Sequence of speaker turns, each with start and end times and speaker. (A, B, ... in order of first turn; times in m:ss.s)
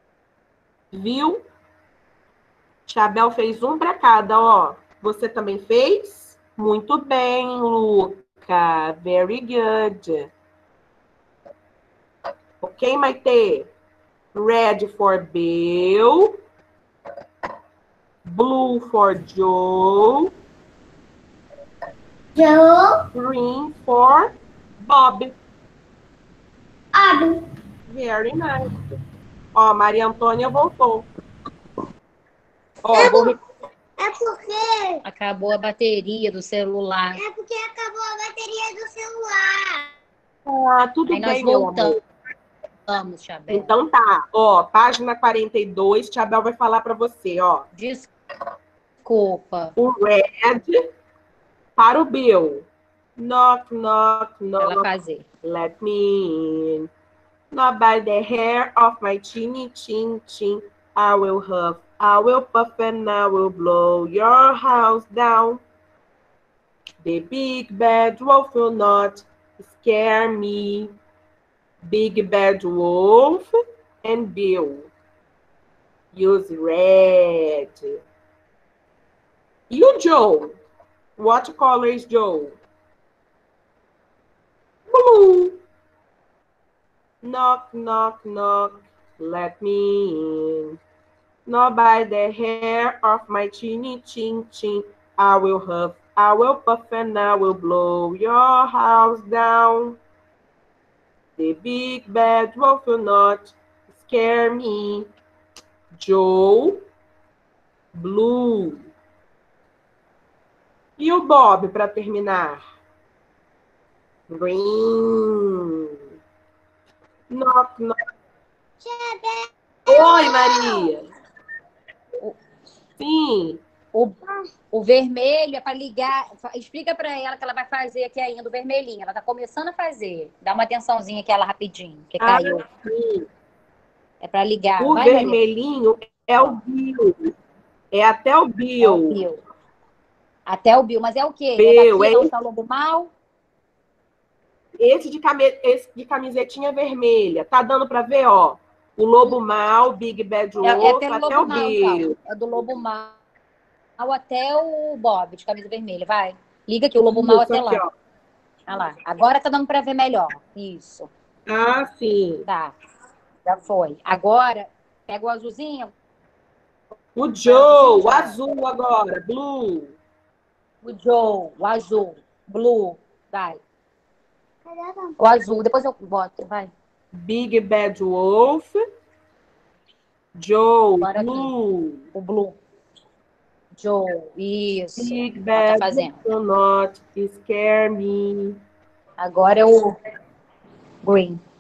0:00.9-0:01.4 A
0:02.9-0:10.3 A
0:12.6-0:13.7 A
0:14.3-0:16.3 A
0:18.3-0:20.3 A
0:22.4-0:23.0 B
0:23.1-0:25.4 A
0:26.9-0:27.4 B
0:27.9-0:28.8 A
0:29.6-0:31.1 A
0:32.8-0:33.4 A
0:32.9-0:33.4 B
0:34.0-0:35.0 B
0:35.1-0:37.2 C
0:37.2-0:39.9 B
0:40.5-0:42.0 A
0:41.1-0:42.0 C
0:42.9-0:43.7 C
0:43.5-0:47.7 A
0:47.8-0:48.1 C
0:49.0-0:49.7 C
0:49.8-0:50.8 A
0:51.8-0:54.9 A
0:54.6-0:55.2 C
0:55.4-0:56.9 A
0:57.5-1:05.6 A
1:07.0-1:10.9 A
1:11.8-1:13.5 A
1:14.0-1:14.9 A
1:16.1-1:18.0 A
1:19.7-1:20.6 A
1:21.2-1:22.6 A
1:24.9-1:25.6 A
1:27.2-1:30.8 A
1:31.5-1:40.0 A
1:41.4-1:45.1 A
1:46.0-1:46.8 A
1:48.0-1:48.9 A
1:51.0-1:52.6 A
1:54.3-1:55.9 A
1:57.3-1:58.0 A
1:58.8-2:00.9 B
1:59.9-2:01.1 A
2:03.0-2:03.6 A
2:04.7-2:12.6 C
2:12.2-2:13.3 A
2:14.2-2:15.4 C
2:14.8-2:17.3 A
2:17.9-2:19.2 A
2:18.8-2:19.4 C
2:20.5-2:23.1 C
2:21.6-2:22.3 A
2:24.8-2:32.1 A
2:30.6-2:33.2 C
2:34.0-2:37.8 C
2:37.1-2:37.9 A
2:38.7-2:41.1 C
2:41.5-2:42.5 A
2:42.5-2:42.8 C
2:43.5-2:45.9 C
2:47.2-2:50.0 A
2:47.4-2:48.4 C
2:50.8-2:53.6 C
2:54.7-2:55.2 B
2:55.2-2:56.7 C
2:57.2-2:58.8 A
3:00.4-3:02.1 A
3:01.0-3:01.5 C
3:02.1-3:02.6 C
3:03.8-3:06.2 C
3:05.0-3:08.6 A
3:09.2-3:10.0 C
3:11.0-3:11.4 C